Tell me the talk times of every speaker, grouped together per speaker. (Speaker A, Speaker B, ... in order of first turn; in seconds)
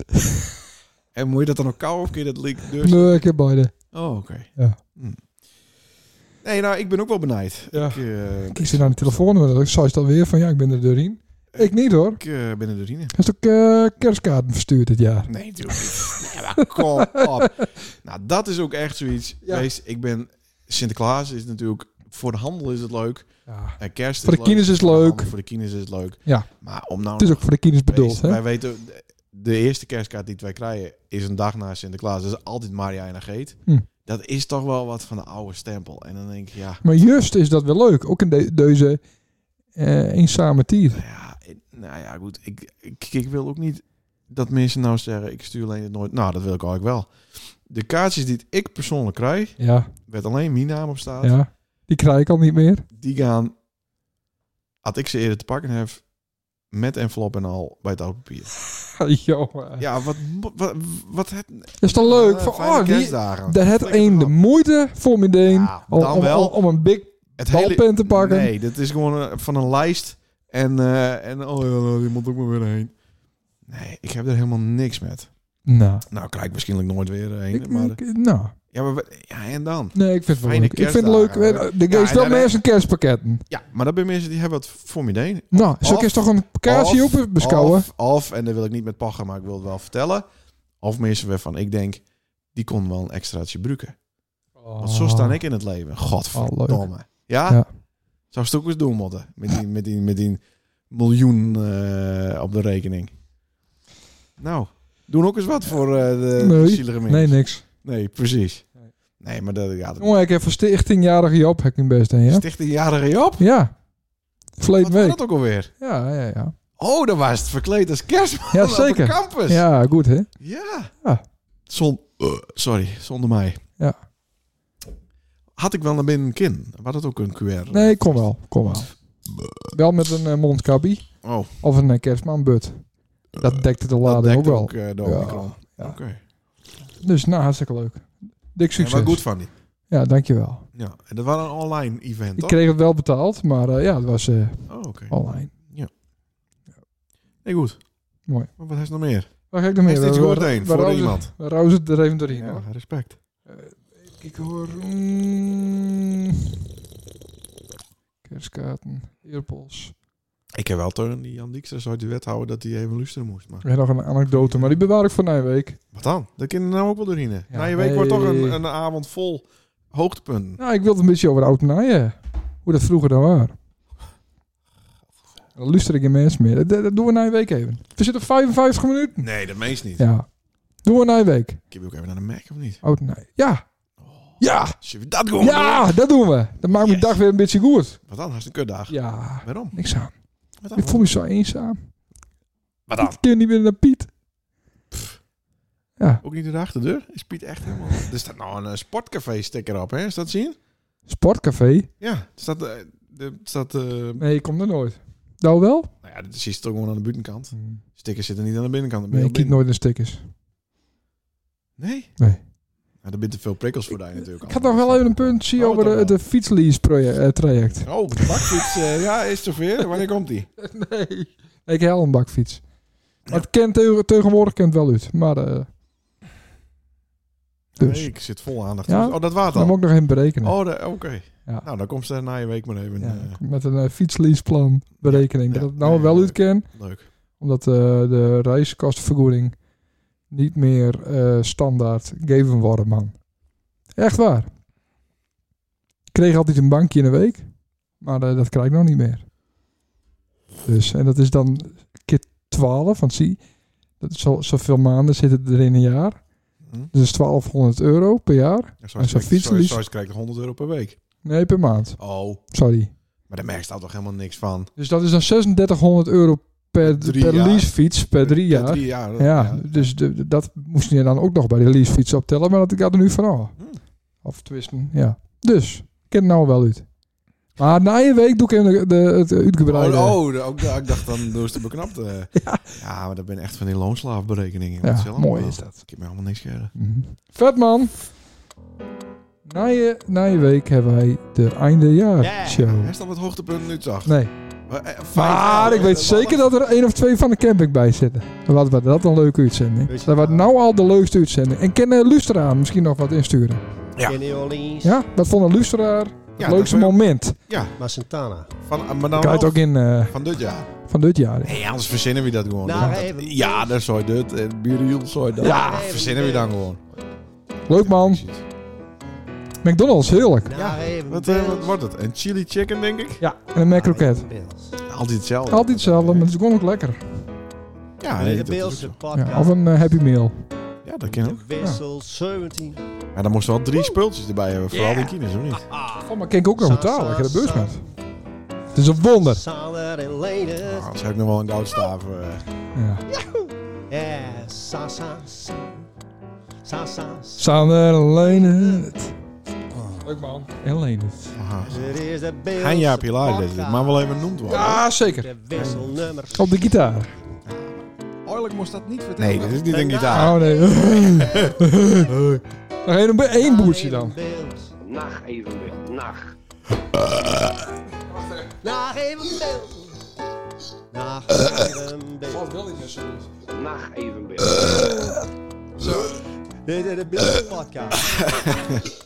Speaker A: 1.1-3.2, 3.9-5.2, 6.4-9.2, 11.5-13.1, 15.3-23.3, 23.8-36.8, 40.9-51.4, 52.9-53.5, 54.8-56.0, 56.7-58.5, 59.8-64.3, 65.4-66.6, 67.4-72.9, 73.7-75.3, 76.1-78.0, 78.7-82.6, 83.5-90.2, 90.8-92.0, 92.5-94.0, 94.8-97.6, 98.3-103.1, 104.4-108.7, 109.2-110.2, 112.3-113.4, 114.8-115.7, 116.8-119.6, 120.4-120.9, 121.7-123.6, 125.5-128.3, 131.2-131.5, 134.0-136.2, 138.8-139.5, 140.7-142.6, 144.7-145.9, 147.4-147.8, 148.6-149.3, 149.8-151.3, 152.3-153.2, 160.5-163.7, 164.3-164.8, 165.9-170.6, 179.2-180.1, 181.7-182.8, 184.0-186.0, 186.7-187.2, 188.1-189.8, 190.6-191.1, 192.9-193.1, 194.9-195.2, 196.2-200.6, 202.0-204.2, 206.0-209.6, 211.8-212.1, 213.0-216.2, 217.7-220.5, 227.8-229.8, 230.4-233.4, 235.0-237.1, 256.6-256.9, 258.8-261.0, 262.0-262.4, 263.3-264.7, 266.8-269.9, 279.6-286.7, 292.5-294.1, 294.7-296.5, 306.4-307.7, 308.6-310.7, 311.4-316.8, 317.7-318.4, 320.5-323.2, 324.9-326.3, 328.0-329.0, 330.8-331.4, 333.1-335.7, 340.6-342.4, 351.3-351.9, 352.5-354.8, 357.4-360.4, 361.1-362.4, 378.0-378.9
Speaker B: 2.8-3.7, 7.7-12.2, 13.1-17.7, 23.5-25.3, 27.2-28.4, 36.8-39.0, 39.7-41.0, 49.6-49.9, 51.2-52.8, 58.9-59.8, 61.8-68.5, 75.7-76.0, 77.5-78.5, 79.9-83.4, 85.5-87.9, 94.6-95.4, 96.3-96.9, 106.4-107.6, 110.0-112.4, 113.4-113.7, 114.6-115.2, 115.8-116.5, 118.5-120.3, 127.7-128.9, 129.7-131.1, 131.6-136.0, 137.0-139.2, 139.9-140.7, 142.4-145.5, 149.5-152.6, 153.5-156.5, 158.2-159.9, 163.6-165.8, 167.5-168.6, 170.6-173.5, 175.6-179.3, 180.0-180.3, 180.8-181.6, 182.8-183.6, 184.4-184.8, 185.4-188.0, 188.9-190.1, 190.8-191.8, 193.0-194.1, 196.0-196.2, 201.1-201.9, 204.2-205.9, 207.5-207.8, 209.1-210.2, 214.4-218.7, 220.6-222.6, 223.3-225.7, 227.8-228.1, 228.9-230.6, 233.0-236.7, 237.4-239.6, 240.3-243.2, 243.9-244.5, 246.1-247.4, 248.0-249.2, 250.6-253.4, 254.0-256.2, 256.9-259.8, 261.2-262.0, 262.5-262.9, 264.8-273.5, 274.2-276.9, 277.6-280.3, 282.4-282.7, 284.8-285.8, 286.8-287.9, 289.5-292.9, 294.0-294.3, 295.1-303.6, 304.8-307.4, 309.1-310.2, 310.8-311.6, 315.4-315.9, 317.7-318.2, 319.6-320.5, 323.2-324.2, 325.5-327.0, 329.1-330.4, 334.7-335.1, 336.0-337.8, 338.7-339.4, 342.7-343.0, 347.4-349.1, 350.0-351.3, 354.5-355.8, 356.3-357.1, 360.1-362.1, 362.8-364.1, 368.1-368.5, 372.3-373.3, 375.8-376.1
Speaker C: 292.2-292.7, 299.9-300.5, 304.0-304.9, 307.8-308.5, 312.6-313.7, 315.4-316.6, 320.5-321.8, 323.7-324.8, 328.1-329.6, 331.1-332.8, 336.6-337.9, 339.2-340.9, 343.9-345.8, 346.6-348.9, 351.6-357.0, 359.2-361.2, 363.3-364.7, 368.6-370.0, 370.9-372.4, 376.6-378.5
Speaker D: 364.8-366.3, 373.5-374.9